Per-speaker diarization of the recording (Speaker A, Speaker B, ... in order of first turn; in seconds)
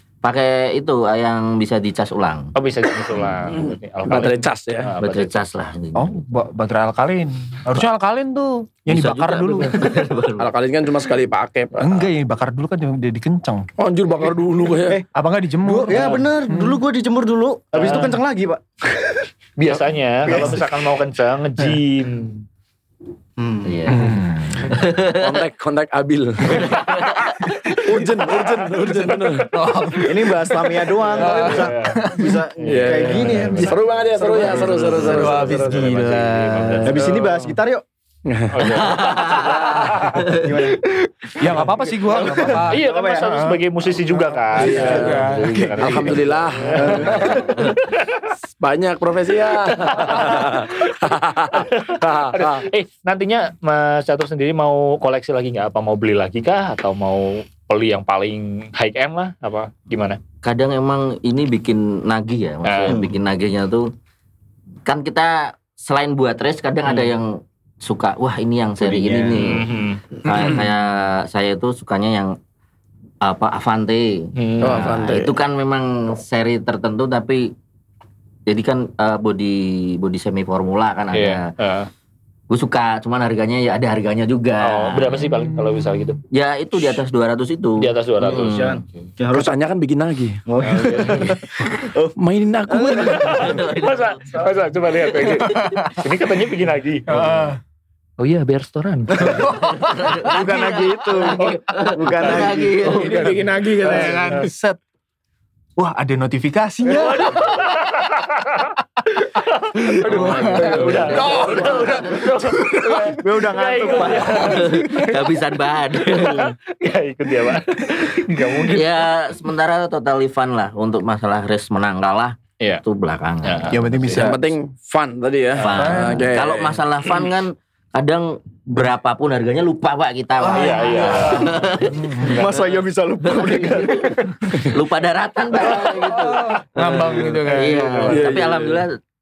Speaker A: 0.2-2.5, 3.1-3.6, 5.0-6.2, 8.9-10.5, 23.6-25.4, 26.5-27.4, 38.6-40.6, 60.4-63.9, 64.8-72.4, 73.2-77.5, 78.5-81.5, 82.5-85.3, 86.3-88.8, 93.1-94.5, 95.2-95.5, 99.4-103.3, 113.8-116.5, 118.7-124.3, 125.6-132.3, 133.2-139.0
Speaker B: 2.5-5.5, 17.7-18.2, 19.6-22.4, 31.0-32.0, 34.8-37.2, 38.5-40.2, 42.3-48.3, 49.7-60.2, 62.6-63.0, 69.4-70.5, 74.3-74.9, 81.1-81.9, 84.6-86.2, 87.8-89.0, 90.6-91.4, 93.4-97.1, 98.2-99.5, 103.9-104.5, 106.8-108.7, 109.4-115.2, 116.0-119.1, 123.4-123.8, 125.6-126.0, 130.5-132.8, 135.6-136.3, 136.9-137.2
Speaker C: 4.0-4.9, 10.4-12.1, 13.8-15.0, 15.7-16.1, 25.1-29.6, 31.2-31.7, 32.6-36.0, 37.1-37.4, 38.2-40.1, 44.6-47.5, 48.6-52.7, 68.8-69.4, 74.6-75.3, 89.3-90.4, 92.2-93.6, 102.9-104.5, 110.0-111.8, 124.1-126.8, 138.1-138.8
Speaker D: 5.9-9.9, 11.8-13.7, 15.1-16.8, 23.9-24.7, 27.5-28.2, 29.4-32.4, 33.1-37.1, 41.4-46.3, 50.1-50.4, 85.5-86.0, 95.5-96.0, 97.1-97.6, 99.2-101.5, 102.8-104.8, 105.8-107.8, 109.7-113.2, 123.7-124.5, 125.7-126.3, 130.4-132.4, 135.8-138.3
Speaker E: 14.8-15.0, 15.7-19.2, 20.2-20.6, 23.4-23.7, 30.0-35.5, 36.9-37.8, 40.1-43.6, 44.6-45.0, 46.8-47.6, 88.2-89.5, 90.5-92.1, 92.7-93.6, 100.2-104.2, 113.0-115.1, 132.2-134.3